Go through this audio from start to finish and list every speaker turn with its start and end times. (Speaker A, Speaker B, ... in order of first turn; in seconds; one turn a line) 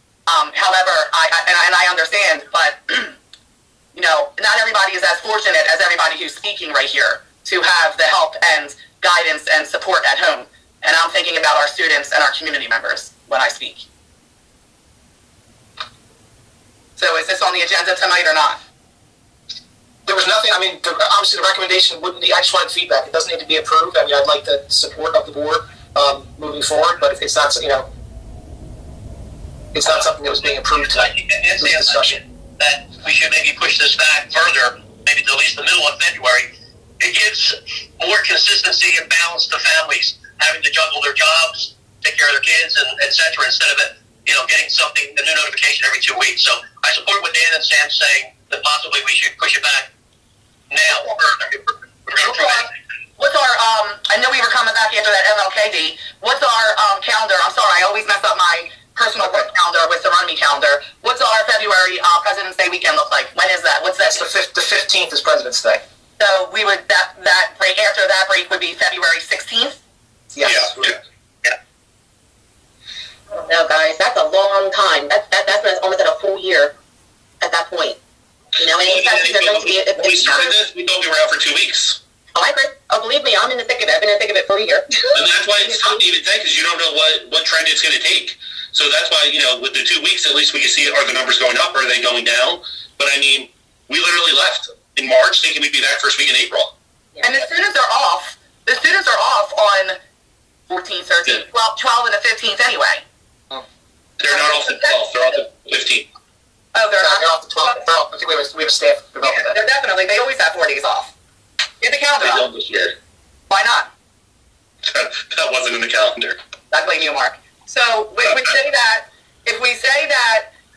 Speaker A: 0.3-3.1
Speaker A: 4.0-13.8
Speaker A: 17.0-18.6
Speaker B: 20.1-27.9
Speaker B: 29.7-32.2
Speaker C: 30.9-36.5
Speaker C: 37.0-49.9
Speaker C: 50.7-52.7
Speaker A: 52.2-64.2
Speaker B: 64.0-65.8
Speaker A: 66.2-69.8
Speaker B: 70.3-70.9
Speaker D: 73.3-76.7
Speaker D: 77.4-78.0
Speaker D: 78.6-80.5
Speaker E: 78.6-82.0
Speaker D: 82.3-85.1
Speaker E: 85.1-96.7
Speaker D: 85.7-86.0
Speaker A: 97.2-100.0
Speaker A: 100.7-103.0
Speaker E: 104.2-106.1
Speaker A: 104.3-104.9
Speaker A: 106.8-107.8
Speaker B: 107.0-109.6
Speaker A: 109.2-111.1
Speaker A: 111.8-112.5
Speaker E: 112.2-112.9
Speaker A: 113.5-113.9
Speaker E: 114.9-116.4
Speaker A: 116.7-120.5